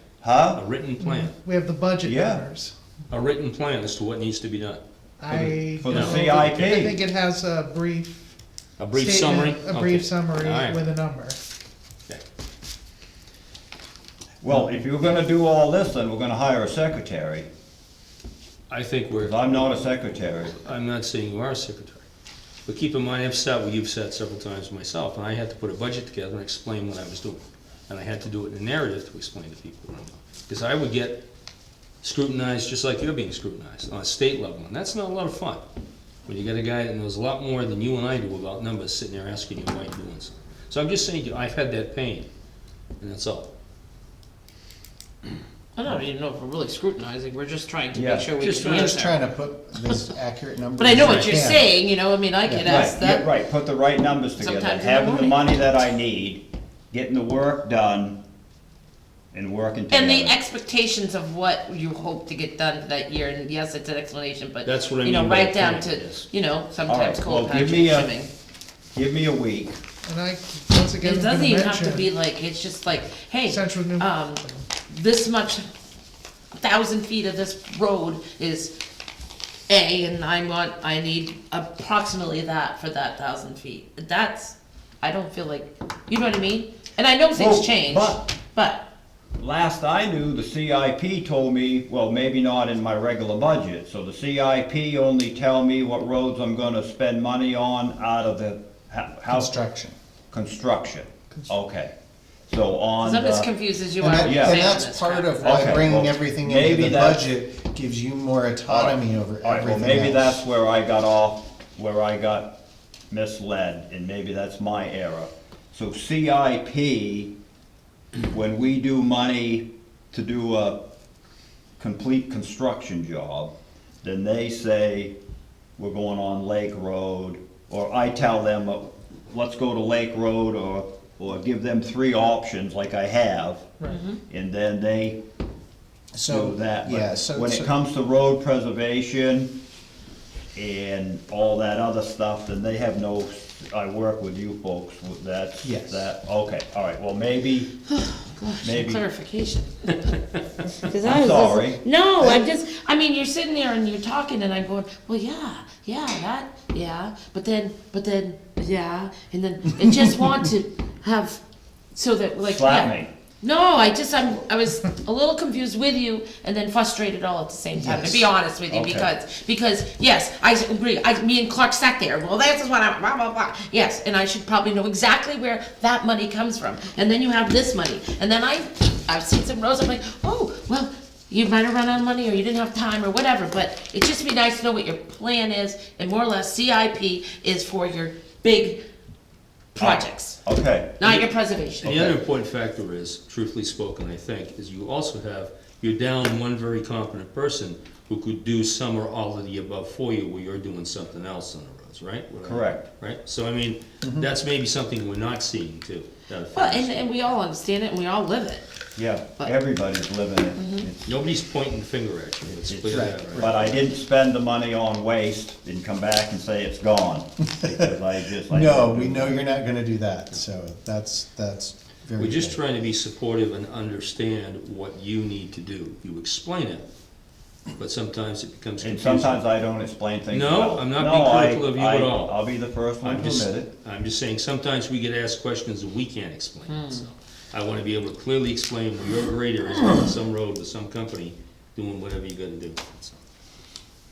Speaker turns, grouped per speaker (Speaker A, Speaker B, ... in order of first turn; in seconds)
Speaker A: 0.2-0.6, 2.0-2.4, 5.3-7.0, 14.4-17.5, 19.2-20.6, 47.9-48.3, 52.6-58.2, 59.3-60.4, 66.9-68.1, 68.9-69.8, 87.3-88.3, 89.4-99.6, 100.3-101.9, 102.5-103.5, 104.2-104.7, 105.4-107.2, 108.7-112.5, 113.1-117.3, 118.2-120.8, 121.8-123.5, 124.0-125.1, 125.8-133.7, 134.3-135.2, 136.3-139.5, 140.5-147.7, 148.6-149.0, 151.0-152.4, 162.4-163.1, 168.7-169.1, 189.8-191.2, 191.8-192.1, 202.4-202.9, 208.9-211.1, 212.7-219.4, 228.8-233.7
Speaker B: 0.5-1.3, 3.1-6.8, 8.8-10.8, 18.7-22.0, 22.6-31.2, 32.0-35.6, 36.3-42.3, 43.0-43.5, 48.4-49.0, 51.0-51.4, 64.6-66.3, 191.8-207.1, 211.1-213.8, 222.2-226.8, 227.7-229.4, 230.3-232.3, 233.0-243.2
Speaker C: 1.0-2.7, 5.2-8.3, 8.9-11.4, 70.0-72.1, 73.4-74.6
Speaker D: 45.8-49.2, 50.8-53.3, 54.4-55.5, 59.9-68.3, 71.0-75.7, 76.5-78.7, 79.7-88.8, 103.0-105.8, 133.9-134.2, 147.9-150.2, 150.8-161.4, 161.9-188.8, 189.7-190.4, 191.0-191.9, 206.5-208.7, 210.6-210.9, 236.7-237.1
Speaker E: 48.6-51.7, 52.4-52.8, 99.3-100.0, 104.0-110.4, 136.1-137.7, 145.6-146.1, 167.8-168.3, 204.0-204.3, 212.9-213.3, 217.6-217.9, 218.5-222.6